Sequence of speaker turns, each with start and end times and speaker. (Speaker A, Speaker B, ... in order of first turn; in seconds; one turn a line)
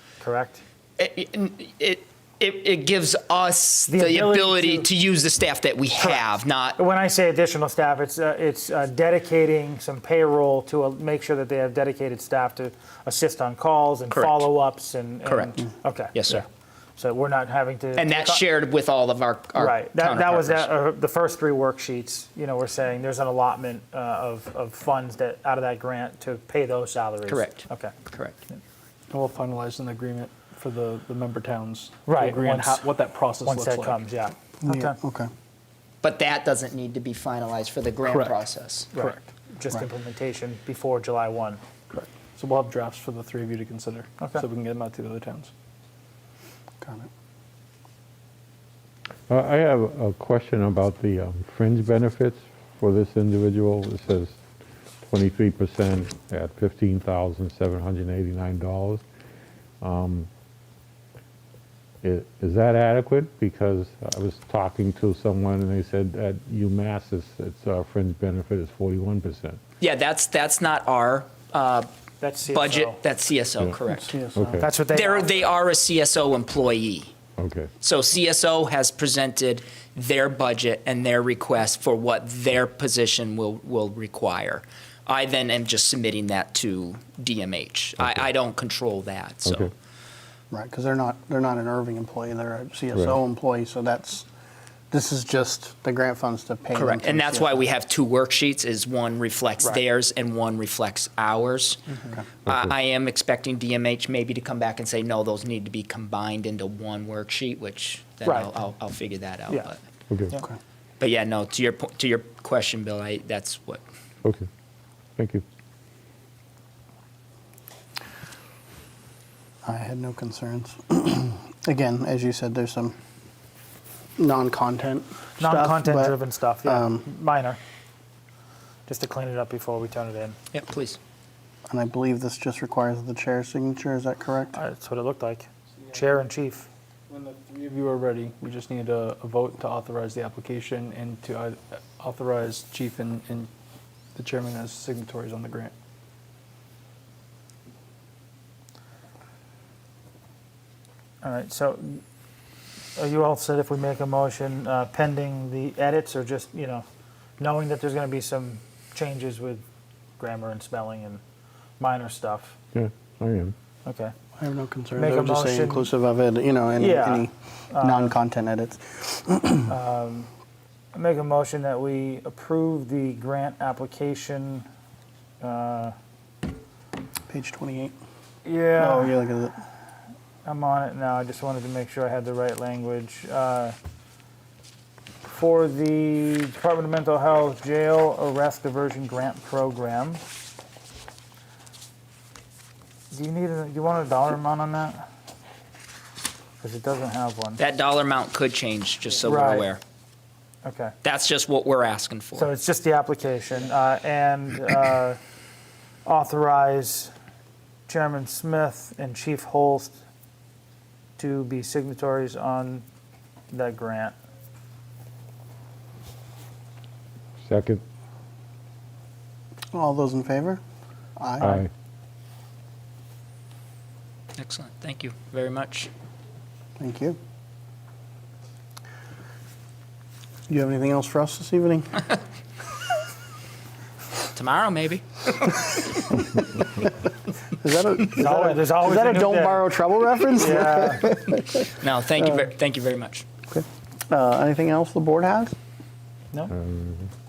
Speaker A: 0.2-0.6
Speaker B: 1.0-6.8
Speaker A: 3.9-4.9
Speaker A: 6.0-6.2
Speaker A: 6.8-16.4
Speaker B: 14.1-14.5
Speaker B: 15.2-15.5
Speaker B: 16.1-16.4
Speaker A: 17.0-18.4
Speaker B: 17.9-20.7
Speaker A: 19.6-27.9
Speaker B: 27.2-28.4
Speaker C: 29.1-34.0
Speaker A: 32.0-32.9
Speaker A: 33.4-35.0
Speaker D: 34.6-35.3
Speaker B: 36.0-38.9
Speaker C: 38.1-38.4
Speaker C: 38.9-39.3
Speaker A: 38.9-41.6
Speaker C: 41.9-45.5
Speaker D: 46.8-47.1
Speaker E: 49.3-54.4
Speaker E: 55.0-59.0
Speaker E: 59.8-60.3
Speaker E: 62.0-69.6
Speaker B: 69.8-71.9
Speaker A: 72.2-73.0
Speaker B: 72.5-74.1
Speaker D: 73.9-74.5
Speaker E: 74.3-74.7
Speaker A: 74.4-75.3
Speaker B: 74.9-77.1
Speaker E: 77.4-77.7
Speaker B: 77.8-89.7
Speaker E: 89.4-89.7
Speaker D: 90.5-94.2
Speaker D: 94.9-97.6
Speaker B: 96.7-101.8
Speaker B: 102.5-109.8
Speaker A: 108.2-108.5
Speaker B: 111.0-113.8
Speaker E: 115.2-115.4
Speaker D: 119.6-122.9
Speaker D: 124.2-127.0
Speaker A: 125.4-127.6
Speaker A: 128.9-130.4
Speaker B: 130.5-131.0
Speaker D: 131.7-134.6
Speaker A: 134.5-136.7
Speaker C: 137.1-143.5
Speaker C: 144.1-145.7
Speaker A: 151.2-152.0
Speaker A: 152.9-156.8
Speaker A: 157.4-159.6
Speaker A: 160.2-161.2
Speaker A: 161.8-162.5
Speaker E: 162.7-163.5
Speaker A: 163.8-164.1
Speaker D: 164.4-169.7
Speaker A: 165.0-165.9
Speaker A: 166.8-168.1
Speaker A: 169.7-170.3
Speaker A: 170.9-174.7
Speaker A: 175.4-175.9
Speaker D: 177.3-177.9
Speaker A: 178.4-179.2
Speaker D: 178.8-179.6
Speaker A: 180.4-183.8
Speaker A: 185.2-190.2
Speaker A: 193.1-195.1
Speaker A: 196.6-197.6
Speaker B: 197.6-199.8
Speaker A: 199.2-199.7
Speaker A: 200.6-200.9
Speaker B: 201.0-202.5
Speaker A: 202.3-205.2
Speaker A: 206.1-207.1
Speaker A: 207.9-210.0
Speaker A: 211.2-212.8
Speaker A: 213.5-214.1
Speaker E: 217.4-217.8
Speaker D: 219.7-220.6
Speaker D: 221.2-221.6
Speaker E: 221.4-221.7
Speaker B: 224.4-225.9
Speaker D: 226.8-227.2
Speaker D: 230.5-232.1
Speaker B: 234.3-236.1
Speaker D: 236.2-236.9
Speaker D: 237.6-241.7
Speaker A: 238.2-239.7
Speaker A: 240.3-241.1
Speaker B: 241.8-243.2
Speaker D: 243.5-245.5
Speaker E: 246.5-247.1